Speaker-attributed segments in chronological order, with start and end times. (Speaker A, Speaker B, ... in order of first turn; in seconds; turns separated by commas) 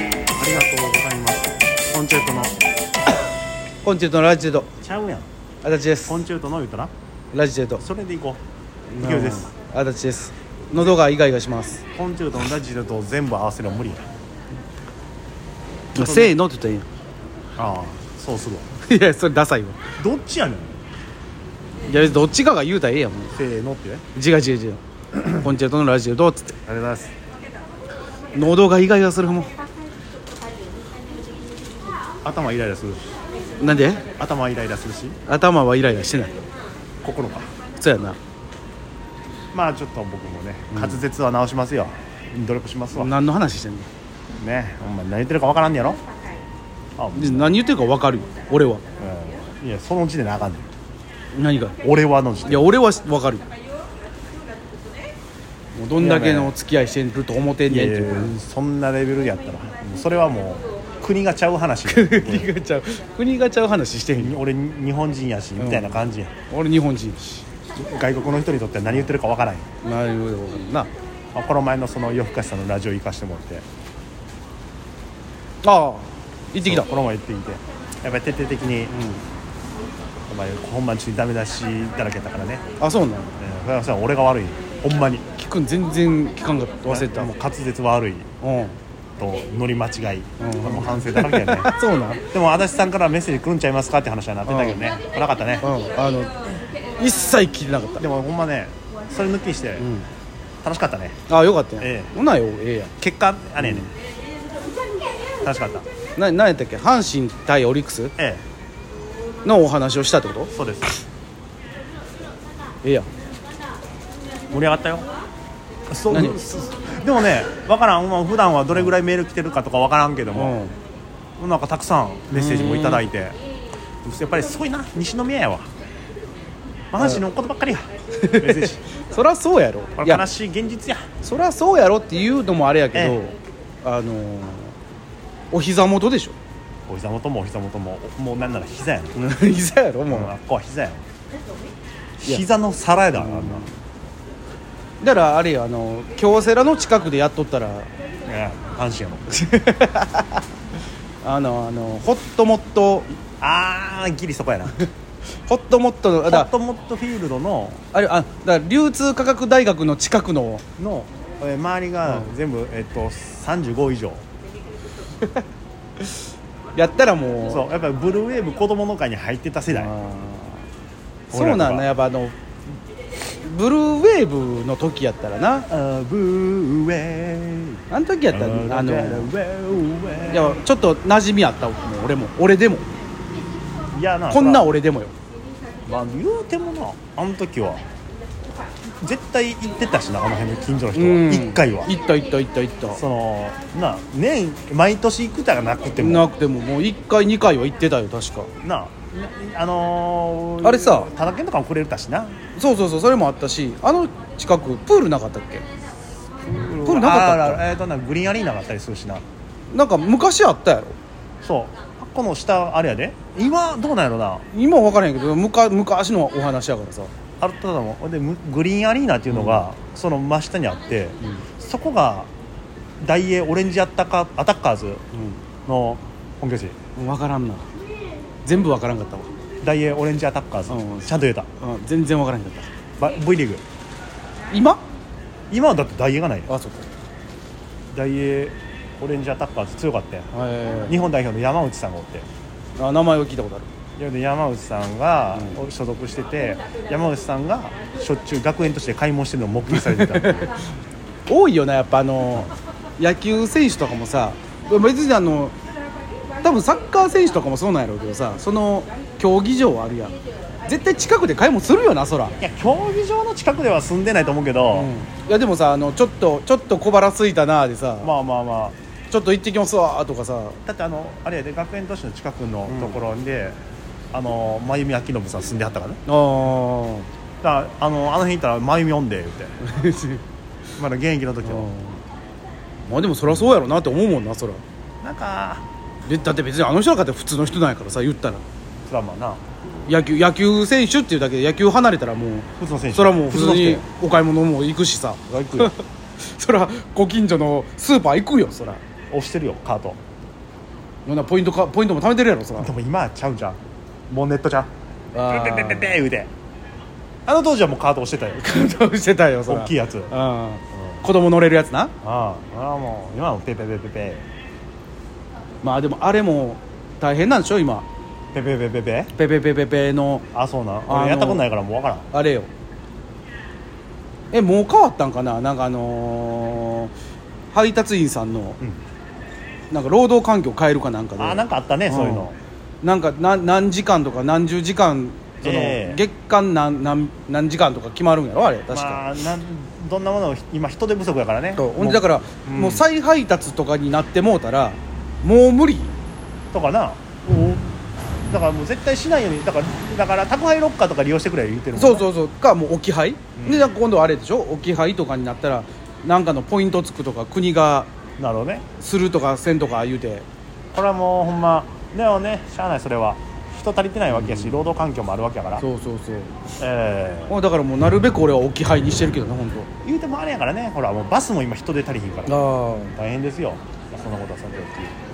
Speaker A: 0.3-2.6, Speaker B: 3.8-4.7, Speaker A: 4.8-5.3, Speaker B: 5.6-6.2, Speaker A: 6.1-6.9, Speaker B: 7.3-7.8, Speaker A: 7.8-8.4, Speaker B: 8.9-11.8, Speaker A: 9.0-9.5, Speaker A: 11.9-14.1, Speaker A: 15.9-16.4, Speaker B: 15.9-16.9, Speaker A: 17.6-18.7, Speaker B: 18.8-19.8, Speaker A: 20.0-20.8, Speaker B: 21.9-23.3, Speaker A: 23.3-24.1, Speaker B: 24.1-24.8, Speaker B: 25.4-26.6, Speaker A: 26.7-27.1, Speaker B: 28.3-29.6, Speaker A: 32.2-33.0, Speaker B: 33.6-34.0, Speaker A: 34.2-35.2, Speaker B: 35.3-36.4, Speaker A: 37.0-37.5, Speaker B: 37.8-38.2, Speaker A: 39.5-43.1, Speaker B: 40.7-41.0, Speaker B: 43.0-43.9, Speaker A: 44.4-46.0, Speaker A: 47.0-47.5, Speaker B: 47.2-48.8, Speaker A: 49.0-50.7, Speaker B: 51.3-51.8, Speaker A: 51.8-52.7, Speaker B: 52.5-53.5, Speaker B: 55.8-58.3, Speaker A: 56.0-56.5, Speaker A: 57.7-62.5, Speaker B: 61.9-64.4, Speaker A: 64.2-66.3, Speaker B: 65.6-67.5, Speaker A: 67.8-69.7, Speaker B: 69.8-70.9, Speaker A: 71.3-73.6, Speaker B: 75.6-76.9, Speaker A: 76.6-79.0, Speaker B: 78.9-79.2, Speaker A: 80.3-82.6, Speaker B: 82.8-83.3, Speaker A: 83.4-85.2, Speaker B: 85.4-87.3, Speaker A: 86.9-88.3, Speaker B: 88.4-88.8, Speaker A: 89.2-91.7, Speaker B: 90.4-92.2, Speaker A: 92.3-95.7, Speaker B: 94.5-94.8, Speaker B: 95.6-96.5, Speaker B: 97.0-98.0, Speaker A: 98.0-99.9, Speaker B: 99.8-100.1, Speaker A: 100.6-101.2, Speaker B: 101.3-102.9, Speaker A: 101.8-102.1, Speaker A: 103.0-103.9, Speaker B: 103.6-103.9, Speaker A: 105.4-105.9, Speaker B: 106.2-108.1, Speaker A: 108.2-108.4, Speaker B: 109.5-110.5, Speaker A: 110.5-111.0, Speaker B: 112.8-113.1, Speaker A: 114.5-115.1, Speaker A: 115.9-120.6, Speaker B: 116.1-116.4, Speaker B: 120.3-120.8, Speaker A: 121.4-123.4, Speaker B: 122.3-123.0, Speaker A: 124.0-125.7, Speaker A: 126.9-127.8, Speaker B: 128.2-130.2, Speaker A: 128.4-128.8, Speaker A: 130.0-131.1, Speaker B: 131.2-134.8, Speaker B: 135.5-136.3, Speaker A: 136.9-139.1, Speaker B: 139.2-140.3, Speaker A: 140.1-141.1, Speaker A: 142.2-143.7, Speaker B: 143.2-143.7, Speaker B: 145.0-147.9, Speaker A: 148.2-149.3, Speaker B: 149.3-150.4, Speaker B: 151.2-153.1, Speaker A: 153.4-154.8, Speaker B: 155.5-156.5, Speaker A: 156.3-157.8, Speaker B: 157.9-160.6, Speaker A: 160.8-164.2, Speaker B: 166.8-167.7, Speaker A: 167.5-169.9, Speaker B: 169.7-170.6, Speaker A: 171.3-171.9, Speaker B: 171.3-172.3, Speaker B: 173.3-175.7, Speaker A: 175.7-180.6, Speaker B: 177.9-179.3, Speaker B: 180.3-182.9, Speaker A: 183.9-184.7, Speaker B: 184.3-185.2, Speaker A: 185.8-187.8, Speaker A: 189.0-191.9, Speaker B: 190.9-193.0, Speaker A: 192.9-196.3, Speaker B: 196.0-198.5, Speaker A: 198.6-202.4, Speaker B: 200.6-201.1, Speaker B: 202.6-205.7, Speaker A: 206.6-209.2, Speaker B: 206.7-207.6, Speaker B: 209.7-211.0, Speaker A: 211.4-214.5, Speaker B: 214.5-217.1, Speaker A: 217.4-222.3, Speaker B: 219.3-219.7, Speaker A: 223.0-225.0, Speaker B: 225.1-225.4, Speaker A: 225.7-226.8, Speaker B: 227.0-227.7, Speaker B: 228.4-229.3, Speaker A: 229.6-231.5, Speaker B: 230.7-232.7, Speaker A: 233.0-233.6, Speaker B: 234.5-234.8, Speaker A: 235.5-236.5, Speaker B: 236.5-236.9, Speaker A: 237.9-240.3, Speaker B: 240.3-241.0, Speaker A: 240.9-242.3, Speaker B: 242.8-243.7, Speaker A: 244.0-250.5, Speaker B: 249.7-250.5, Speaker B: 251.3-255.5, Speaker B: 256.4-262.4, Speaker A: 262.4-264.9, Speaker B: 264.7-268.1, Speaker A: 268.0-268.8, Speaker B: 269.1-270.6, Speaker A: 270.6-273.6, Speaker B: 272.7-273.0, Speaker A: 274.1-276.0, Speaker B: 276.1-277.1, Speaker A: 277.4-279.5, Speaker B: 279.6-280.2, Speaker A: 280.8-281.7, Speaker B: 281.4-282.0, Speaker B: 282.9-284.6, Speaker A: 285.0-285.6, Speaker B: 286.1-288.4, Speaker A: 288.9-289.4, Speaker B: 289.9-298.8, Speaker A: 292.6-293.8, Speaker A: 295.3-295.8, Speaker A: 299.1-300.0, Speaker B: 301.1-302.7, Speaker A: 302.6-303.6, Speaker A: 304.1-304.7, Speaker B: 305.1-306.0, Speaker A: 305.2-306.3, Speaker A: 307.3-308.4, Speaker B: 308.4-311.9, Speaker A: 309.5-310.1, Speaker A: 312.0-314.2, Speaker B: 315.6-317.9, Speaker A: 318.3-319.1, Speaker B: 319.1-320.2, Speaker A: 320.3-322.1, Speaker B: 320.9-321.4, Speaker B: 322.1-322.5, Speaker B: 324.3-326.9, Speaker B: 327.5-328.6, Speaker B: 329.7-332.3, Speaker A: 331.2-332.4, Speaker B: 332.8-339.0, Speaker A: 335.4-336.0, Speaker A: 338.7-342.9, Speaker B: 341.6-345.9, Speaker A: 346.5-347.6, Speaker A: 348.3-352.1, Speaker B: 351.8-357.9, Speaker A: 353.4-353.7, Speaker A: 358.2-358.6, Speaker B: 358.8-360.3, Speaker A: 360.7-365.6, Speaker B: 364.1-364.6, Speaker B: 365.6-366.3, Speaker A: 366.6-367.4, Speaker B: 367.3-369.7, Speaker A: 369.8-374.9, Speaker B: 372.3-372.9